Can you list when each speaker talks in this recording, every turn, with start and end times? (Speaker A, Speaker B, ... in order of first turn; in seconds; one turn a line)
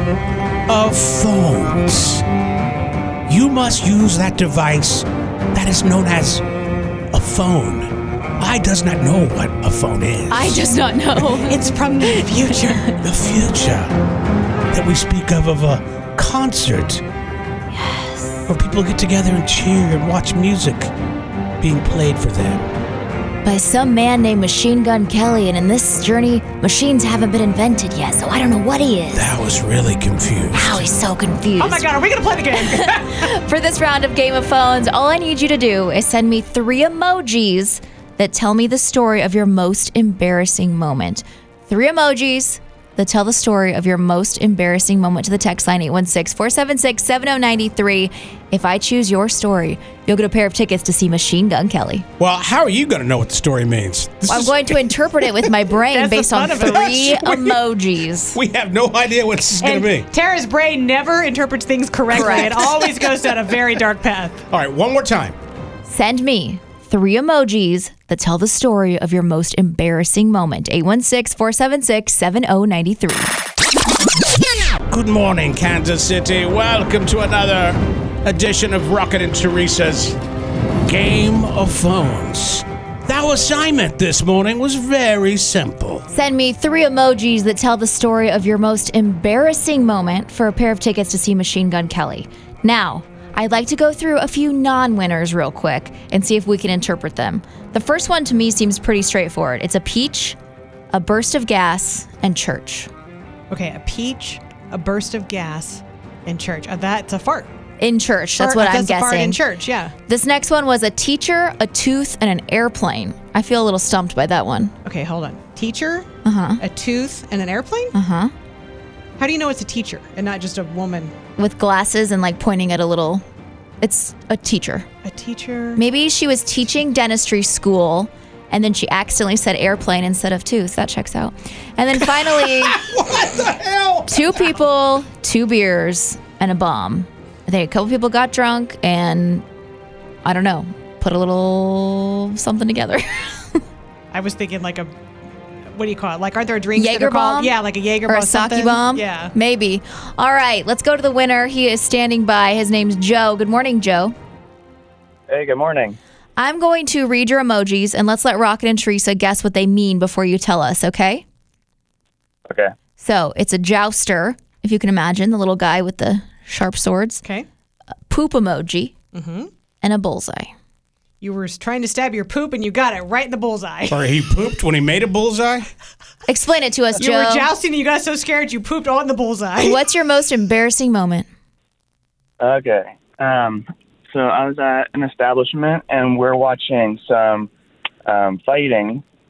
Speaker A: 0.7-2.2
Speaker A: 3.3-6.4
Speaker A: 7.1-10.7
Speaker B: 10.3-12.9
Speaker C: 11.4-12.9
Speaker A: 13.0-13.9
Speaker A: 14.7-17.0
Speaker B: 17.7-18.5
Speaker A: 18.5-20.9
Speaker A: 21.6-22.6
Speaker B: 23.4-29.3
Speaker A: 29.1-30.8
Speaker B: 30.5-31.9
Speaker C: 31.6-33.2
Speaker B: 32.6-52.0
Speaker A: 52.2-55.0
Speaker B: 54.3-58.4
Speaker C: 55.9-57.3
Speaker A: 58.3-60.1
Speaker C: 59.6-64.4
Speaker B: 62.2-62.9
Speaker A: 64.5-65.4
Speaker B: 65.9-73.3
Speaker A: 74.9-80.2
Speaker A: 80.9-86.1
Speaker B: 86.1-100.4
Speaker B: 100.9-102.9
Speaker C: 103.5-107.5
Speaker B: 107.8-109.4
Speaker C: 108.4-109.9
Speaker B: 110.1-114.7
Speaker C: 114.8-116.1
Speaker B: 116.2-116.6
Speaker C: 116.6-117.9
Speaker B: 117.9-118.3
Speaker C: 119.2-121.1
Speaker B: 121.4-123.2
Speaker B: 123.8-124.9
Speaker C: 125.0-125.8
Speaker B: 125.8-132.8
Speaker A: 132.4-134.1
Speaker B: 134.1-139.4
Speaker B: 140.2-143.6
Speaker C: 144.1-144.9
Speaker C: 145.7-149.3
Speaker B: 146.8-147.6
Speaker B: 148.1-154.2
Speaker D: 155.3-156.0
Speaker B: 156.4-161.2
Speaker B: 163.0-167.2
Speaker B: 168.1-168.9
Speaker C: 169.1-169.5
Speaker B: 169.8-170.5
Speaker C: 171.2-174.0
Speaker A: 173.9-175.7
Speaker B: 176.3-177.5
Speaker C: 177.0-179.8
Speaker B: 179.6-181.3
Speaker D: 182.4-187.5
Speaker D: 188.1-189.0